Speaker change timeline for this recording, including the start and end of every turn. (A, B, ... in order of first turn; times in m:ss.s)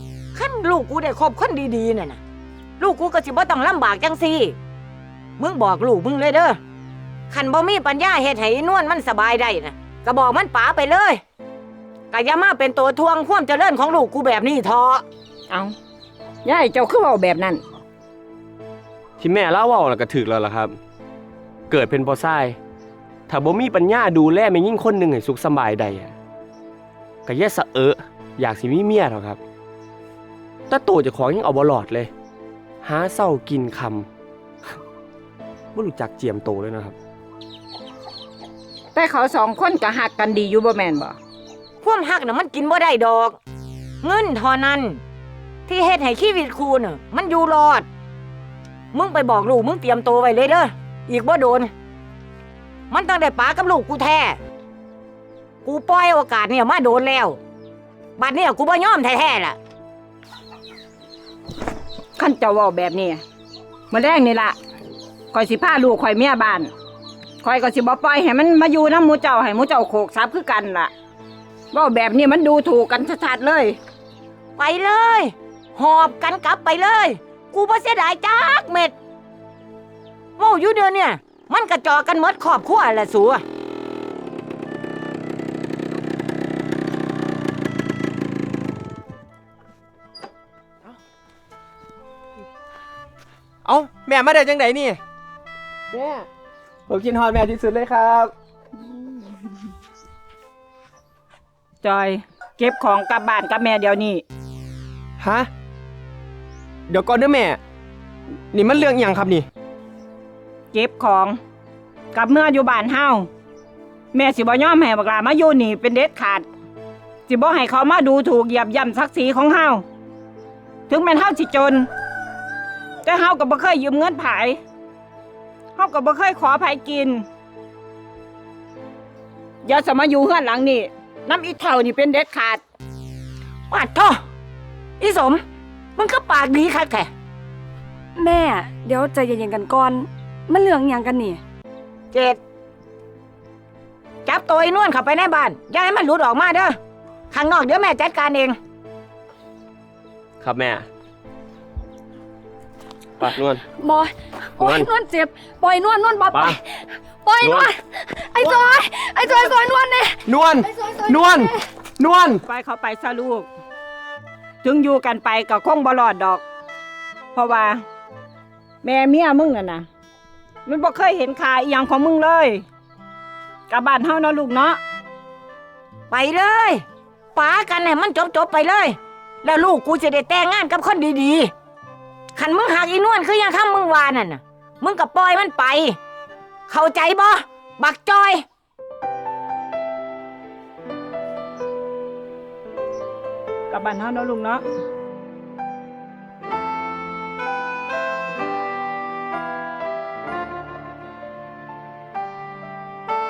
0:00.3-0:02.2 A
0:02.8-0:04.6 A
0:05.4-0:06.6 A
0:07.3-0:11.2 A
0:12.1-0:15.0 A
0:15.5-0:15.7 B
0:16.4-0:17.6 B
0:19.2-0:20.8 C
0:21.7-0:22.6 C
0:23.3-0:26.1 C
0:27.2-0:29.4 C
0:30.7-0:32.1 C
0:32.8-0:34.1 C
0:35.7-0:37.0 C
0:38.9-0:41.2 B
0:41.8-0:43.4 A
0:44.0-0:45.0 A
0:45.7-0:47.8 A
0:48.9-0:51.7 A
0:52.9-0:54.4 A
0:55.6-0:57.4 A
0:58.2-0:59.6 A
1:02.2-1:03.2 B
1:03.9-1:04.6 B
1:05.3-1:06.7 B
1:07.4-1:10.9 B
1:11.7-1:13.8 B
1:14.6-1:18.9 A
1:20.4-1:23.4 A
1:33.6-1:35.0 D
1:35.9-1:36.3 D
1:36.9-1:38.3 D
1:41.8-1:44.2 B
1:45.2-1:45.5 D
1:46.9-1:47.6 D
1:48.5-1:49.5 D
1:50.7-1:51.4 B
1:52.1-1:53.3 B
1:54.1-1:56.5 B
1:57.3-1:59.8 B
2:00.9-2:01.9 B
2:03.0-2:04.6 B
2:05.8-2:07.2 B
2:09.6-2:12.6 B
2:13.7-2:14.2 A
2:15.0-2:15.4 A
2:16.0-2:17.1 A
2:18.2-2:21.4 E
2:22.1-2:22.4 A
2:24.2-2:26.8 A
2:27.3-2:28.6 A
2:30.4-2:30.8 C
2:33.2-2:33.6 C
2:33.2-2:41.6 E
2:34.6-2:34.9 C
2:36.3-2:36.6 C
2:37.4-2:37.7 C
2:40.2-2:42.4 D
2:42.5-2:43.5 B
2:44.6-2:46.4 B
2:47.3-2:47.8 B
2:48.8-2:49.9 B
2:50.6-2:52.6 B
2:53.7-2:54.8 B
2:56.1-2:56.8 A
2:57.3-3:01.5 A
3:02.4-3:06.0 A
3:06.7-3:08.4 A
3:13.7-3:14.6 B